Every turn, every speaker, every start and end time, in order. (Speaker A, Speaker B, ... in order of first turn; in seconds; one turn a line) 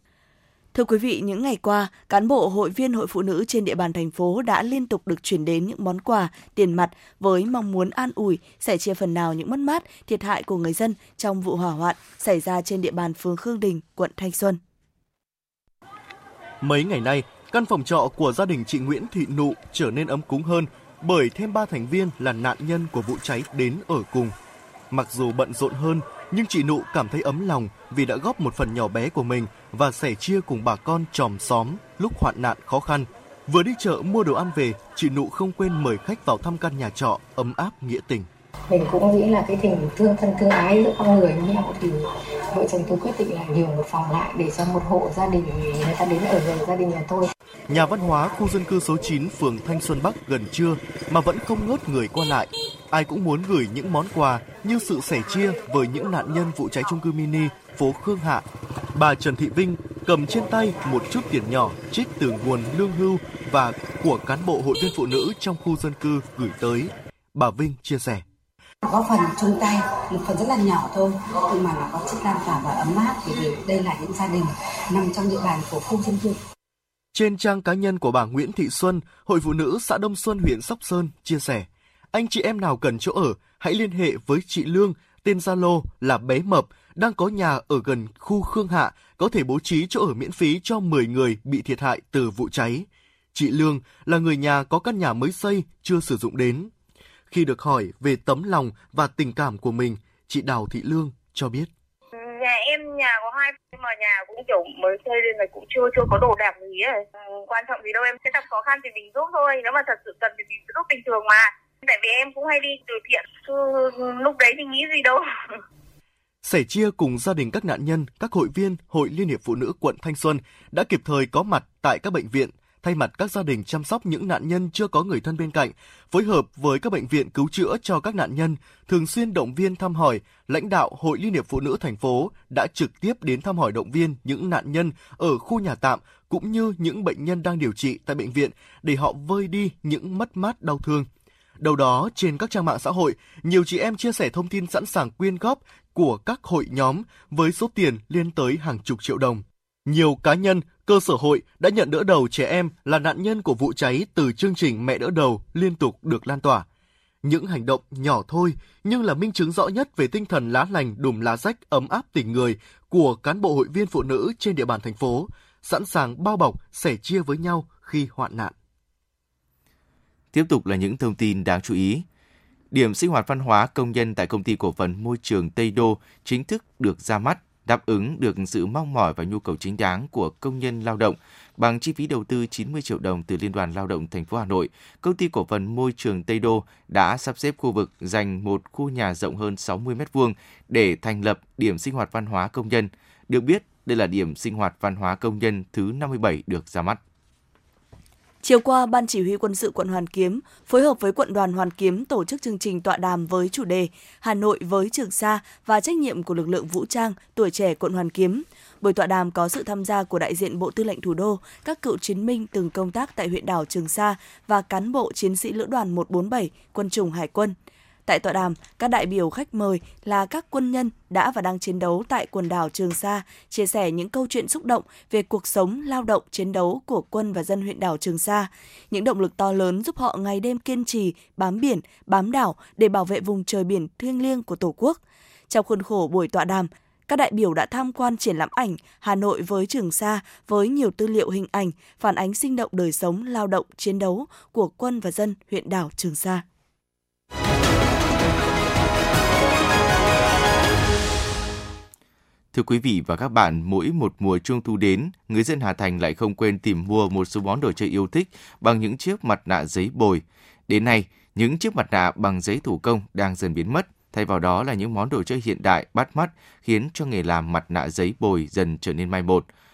Speaker A: 0.7-14.6
Speaker B: 16.6-24.3
Speaker B: 24.9-38.3
Speaker C: 38.7-47.3
Speaker B: 47.7-68.2
Speaker C: 68.8-76.4
Speaker B: 77.1-96.7
Speaker B: 97.3-101.7
Speaker D: 102.2-107.0
Speaker D: 107.5-115.2
Speaker B: 116.4-141.1
Speaker B: 141.6-156.7
Speaker B: 157.2-168.5
Speaker E: 170.3-172.0
Speaker E: 172.7-197.0
Speaker A: 198.4-217.5
Speaker A: 218.1-246.4
Speaker E: 252.5-269.5